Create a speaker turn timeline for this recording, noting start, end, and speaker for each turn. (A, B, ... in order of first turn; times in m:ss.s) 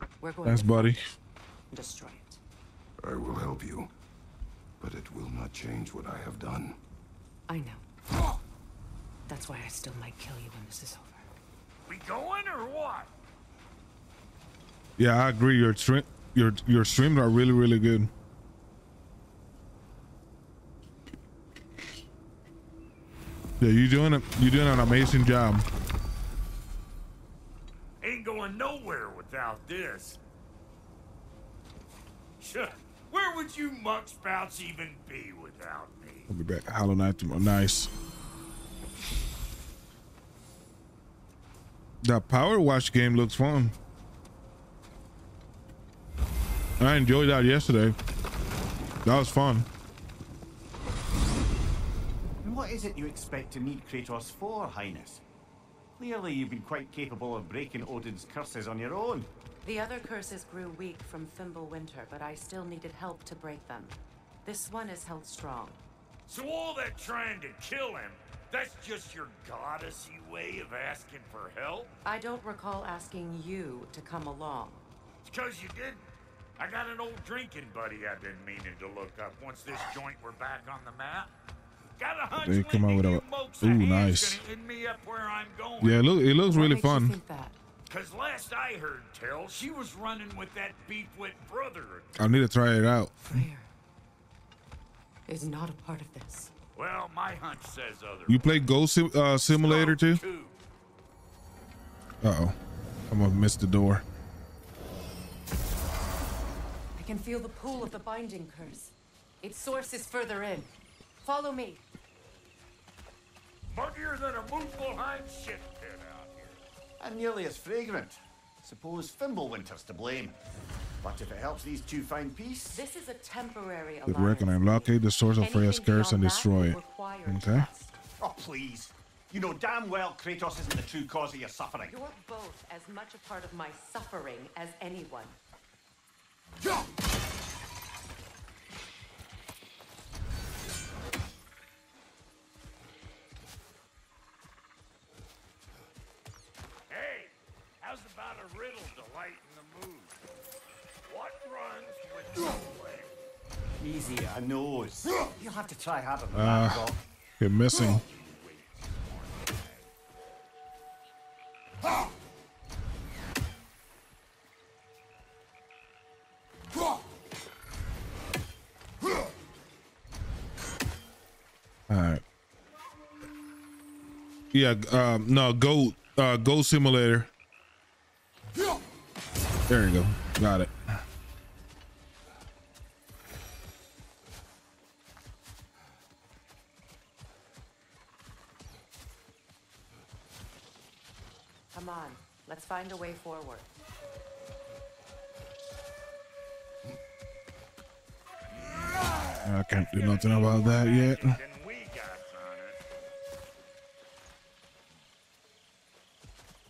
0:00.2-0:01.0 A
0:00.4-0:01.0 B
0:01.7-0:02.4 A
0:03.0-0:03.9 C
0:04.8-0:06.8 C
0:07.5-0:07.8 A
0:09.3-0:11.2 A
0:11.8-0:13.1 D
0:15.0-0:18.1 B
0:23.6-0:25.6 B
0:28.0-0:30.2 D
0:32.4-0:36.3 D
0:36.3-0:37.9 B
0:42.0-0:43.7 B
0:46.8-0:47.9 B
0:49.0-0:49.7 B
0:52.4-0:55.2 E
0:56.0-0:59.3 E
0:59.6-1:05.8 A
1:06.3-1:11.9 D
1:12.0-1:14.9 A
1:15.2-1:21.3 D
1:22.0-1:26.0 D
1:22.4-1:24.4 B
1:25.8-1:27.2 B
1:26.4-1:27.6 A
1:27.9-1:32.1 D
1:32.2-1:33.4 B
1:33.3-1:33.7 A
1:35.3-1:36.5 A
1:36.7-1:38.5 D
1:38.3-1:40.2 B
1:39.5-1:40.6 D
1:42.2-1:42.6 B
1:43.1-1:44.0 B
1:47.0-1:50.7 A
1:51.2-1:51.8 A
1:53.7-1:56.6 D
1:57.0-2:00.4 E
2:01.0-2:02.8 E
2:02.7-2:07.9 A
2:04.0-2:07.7 B
2:08.2-2:11.9 E
2:11.9-2:15.4 A
2:26.9-2:30.2 D
2:31.0-2:33.1 D
2:33.8-2:37.0 E
2:36.3-2:36.9 B
2:37.4-2:38.0 B
2:37.7-2:39.9 D
2:51.9-2:52.2 B
2:54.5-2:57.3 B
2:59.7-3:01.0 B
3:11.7-3:13.7 A
3:19.4-3:21.4 B
3:19.7-3:22.8 D